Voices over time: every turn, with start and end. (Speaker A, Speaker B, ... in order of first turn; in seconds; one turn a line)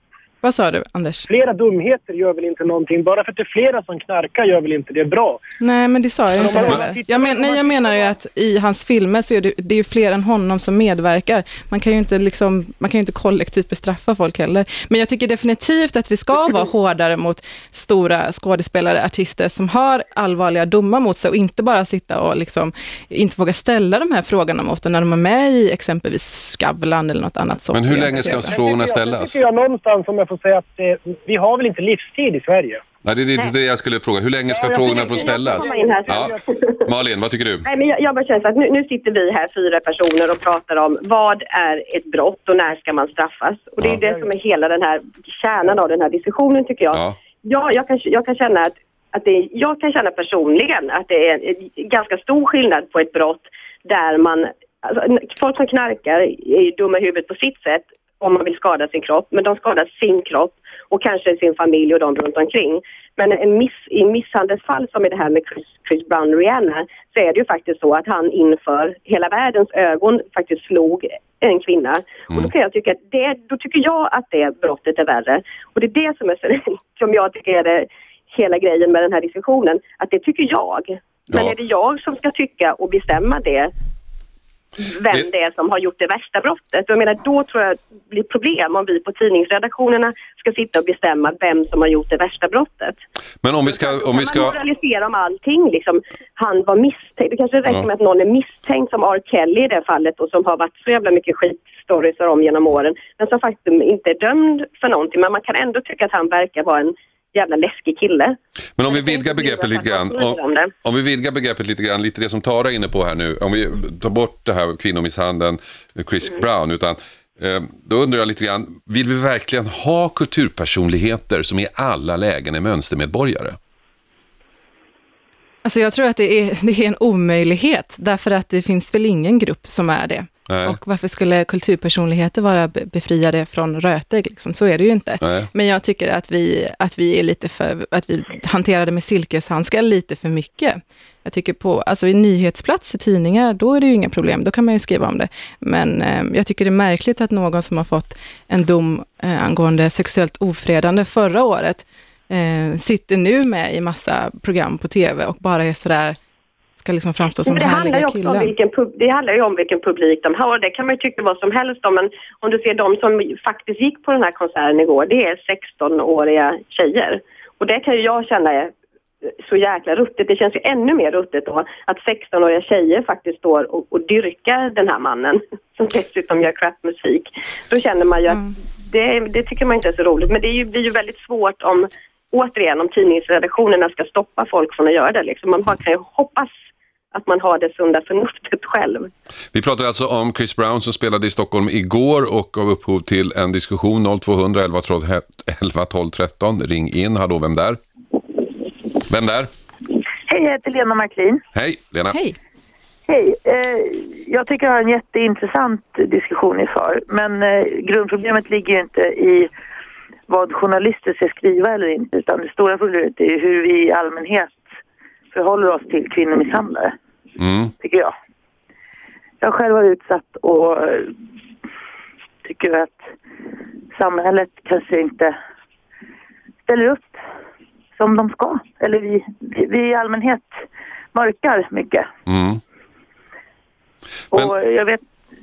Speaker A: 0.4-1.3
Speaker B: 1.3-5.4
Speaker A: 5.6-28.5
Speaker B: 6.3-8.1
Speaker C: 27.7-29.4
Speaker B: 28.1-32.8
Speaker C: 33.0-37.6
Speaker B: 34.5-36.5
Speaker D: 34.6-36.8
Speaker D: 37.6-83.7
Speaker B: 44.0-44.2
Speaker C: 46.9-47.1
Speaker D: 84.8-93.0
Speaker C: 93.4-94.6
Speaker D: 93.7-110.7
Speaker C: 108.8-123.6
Speaker A: 125.6-156.2
Speaker C: 130.5-130.8
Speaker C: 135.2-135.5
Speaker A: 156.8-158.5
Speaker D: 157.4-168.7
Speaker D: 169.4-186.5
Speaker D: 187.1-189.1
Speaker C: 189.5-197.8
Speaker C: 199.1-199.5
Speaker E: 200.3-201.4
Speaker C: 201.5-202.2
Speaker A: 202.1-202.3
Speaker E: 203.1-209.5
Speaker E: 210.3-214.6
Speaker E: 215.3-216.9
Speaker C: 217.4-217.7
Speaker E: 217.8-218.1
Speaker E: 219.4-221.1
Speaker E: 222.4-223.1
Speaker E: 223.9-225.4
Speaker E: 226.7-227.2
Speaker E: 227.9-230.6
Speaker E: 231.1-232.1
Speaker C: 232.3-232.6
Speaker E: 234.3-235.0